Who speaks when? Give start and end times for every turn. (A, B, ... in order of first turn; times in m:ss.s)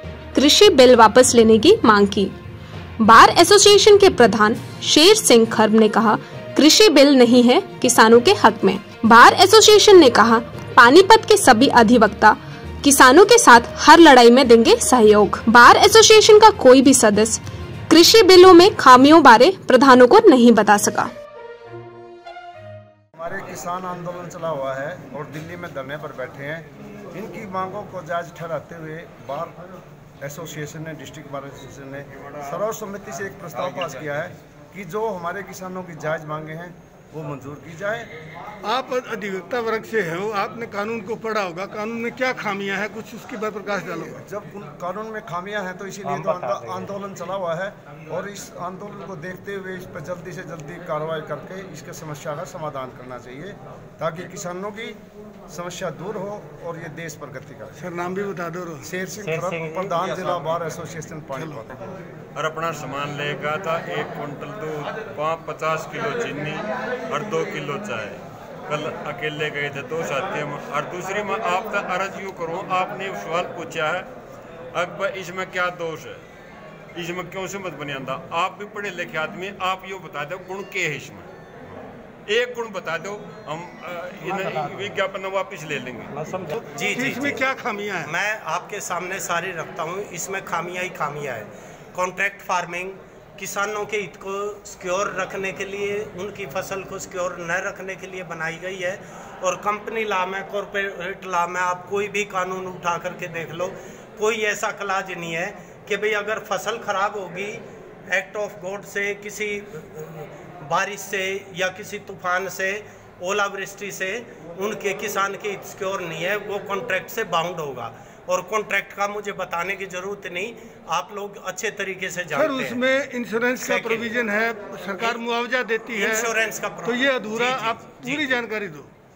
0:00.3-0:02.3 A
0:03.0-0:21.1 A
0:23.2-0:29.6 B
0:30.2-0:38.1 B
0:38.6-0:44.2 C
0:44.2-0:57.8 B
0:57.8-0:58.9 C
0:58.8-1:01.7 B
1:01.4-1:01.6 C
1:02.4-1:14.1 D
1:14.7-1:16.2 D
1:16.9-1:21.2 D
1:22.3-1:26.1 D
1:26.6-1:28.1 C
1:26.7-1:27.4 E
1:28.0-2:02.8 E
2:02.3-2:06.3 C
2:03.6-2:04.1 E
2:05.9-2:08.4 E
2:06.8-2:08.9 C